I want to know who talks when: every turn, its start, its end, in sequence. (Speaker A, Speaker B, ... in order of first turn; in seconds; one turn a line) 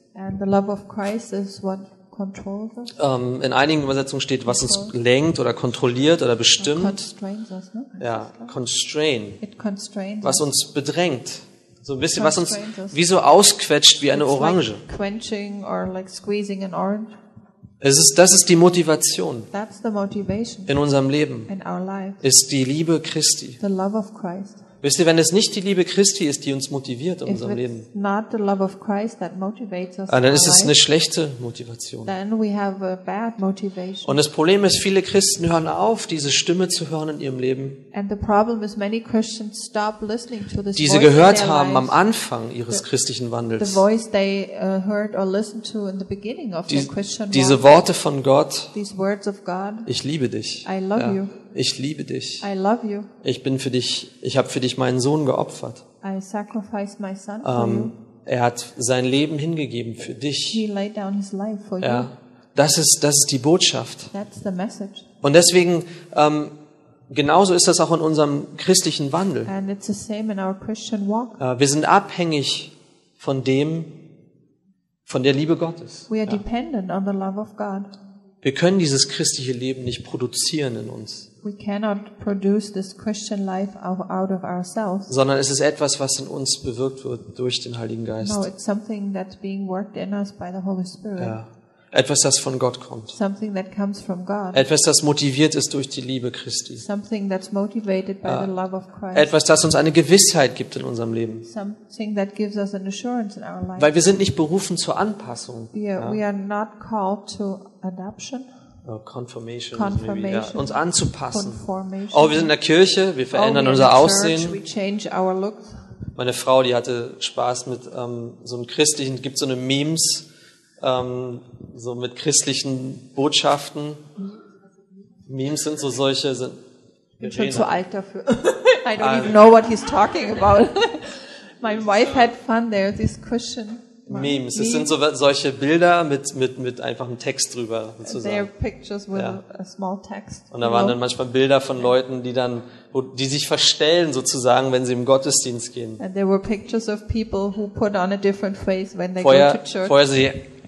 Speaker A: 0.1-2.9
Speaker B: 3.0-7.0
Speaker A: 4.5-5.0
Speaker A: 6.6-8.6
Speaker B: 8.0-9.4
Speaker A: 9.4-10.4
Speaker B: 10.2-14.8
Speaker A: 12.2-13.0
Speaker A: 14.1-17.2
Speaker B: 17.8-19.5
Speaker A: 19.5-20.7
Speaker B: 20.7-21.5
Speaker A: 21.5-22.2
Speaker B: 22.2-23.6
Speaker A: 23.6-24.6
Speaker B: 24.8-27.9
Speaker A: 27.2-30.8
Speaker B: 30.1-32.1
Speaker A: 32.0-34.2
Speaker B: 34.0-37.8
Speaker A: 37.9-42.0
Speaker B: 40.8-43.9
Speaker A: 43.6-47.7
Speaker B: 46.7-48.7
Speaker A: 48.7-49.9
Speaker B: 49.9-52.5
Speaker A: 50.6-51.3
Speaker A: 52.4-53.1
Speaker B: 53.2-55.8
Speaker A: 56.0-58.0
Speaker B: 57.4-60.6
Speaker A: 60.5-62.1
Speaker B: 61.8-64.1
Speaker A: 64.1-65.1
Speaker B: 65.2-66.5
Speaker B: 67.1-69.5
Speaker A: 69.5-71.4
Speaker B: 71.4-74.0
Speaker B: 75.1-76.3
Speaker A: 76.1-77.9
Speaker B: 78.4-81.3
Speaker A: 81.4-85.1
Speaker B: 85.1-88.5
Speaker A: 88.2-91.4
Speaker B: 91.2-93.2
Speaker A: 93.1-94.6
Speaker B: 94.5-96.8
Speaker A: 96.8-99.3
Speaker B: 98.2-98.5
Speaker B: 99.1-101.5
Speaker A: 101.5-103.9
Speaker B: 103.8-106.2
Speaker A: 105.7-108.5
Speaker B: 108.8-111.6
Speaker A: 109.7-112.5
Speaker B: 112.1-114.6
Speaker A: 113.3-115.8
Speaker B: 116.2-120.3
Speaker B: 120.8-124.1
Speaker B: 125.3-126.6
Speaker B: 127.2-127.7
Speaker A: 127.2-134.9
Speaker B: 129.0-129.4
Speaker B: 134.1-138.5
Speaker A: 138.0-141.0
Speaker B: 139.2-139.4
Speaker B: 140.5-146.0
Speaker A: 146.0-150.0
Speaker B: 149.2-150.4